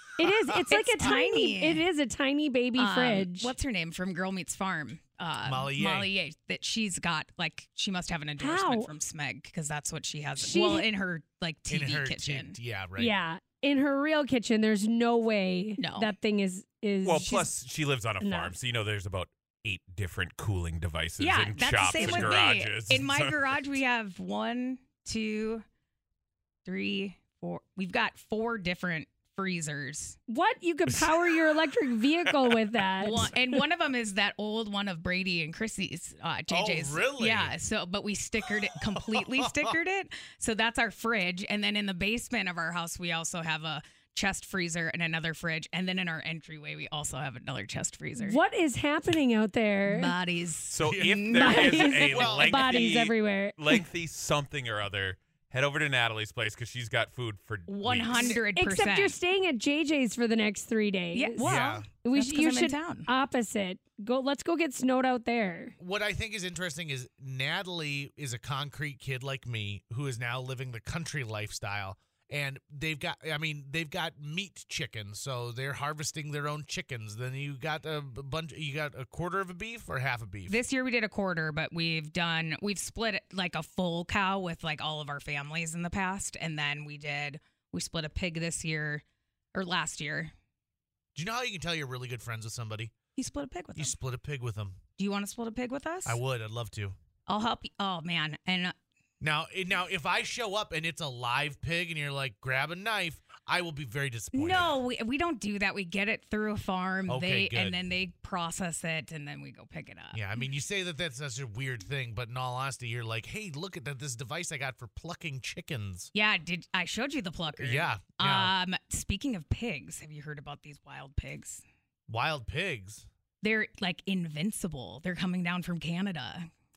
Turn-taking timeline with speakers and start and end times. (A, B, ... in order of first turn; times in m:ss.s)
0:00.2-0:03.5 A
0:00.5-0:01.8 B
0:02.8-0:12.6 B
0:05.4-0:06.1 C
0:08.4-0:08.9 A
0:10.4-0:10.9 A
0:11.7-0:13.1 C
0:13.0-0:17.5 A
0:15.8-0:16.1 B
0:17.0-0:23.8 D
0:18.2-0:18.5 A
0:21.2-0:25.6 B
0:21.9-0:22.4 C
0:26.6-0:30.2 B
0:30.3-0:33.6 A
0:33.0-0:48.4 B
0:36.5-0:37.5 C
0:38.5-0:39.7 C
0:48.2-0:50.1 A
0:49.8-0:51.9 B
0:50.7-0:58.4 D
0:50.8-0:52.9 C
0:51.3-0:53.8 A
0:57.7-0:59.2 B
0:58.2-1:05.7 A
1:01.1-1:03.1 B
1:01.4-1:01.8 C
1:05.8-1:20.6 C
1:20.5-1:29.0 B
1:29.5-1:30.3 B
1:31.1-1:32.9 C
1:33.2-1:33.9 B
1:33.8-1:34.8 C
1:35.0-1:36.2 B
1:36.0-1:37.0 C
1:37.3-1:38.7 B
1:39.2-1:44.8 C
1:44.3-1:50.3 B
1:47.1-1:47.8 C
1:50.1-1:56.1 C
1:56.1-2:01.6 B
1:57.6-1:58.5 C
2:02.1-2:03.1 C
2:03.4-2:06.5 B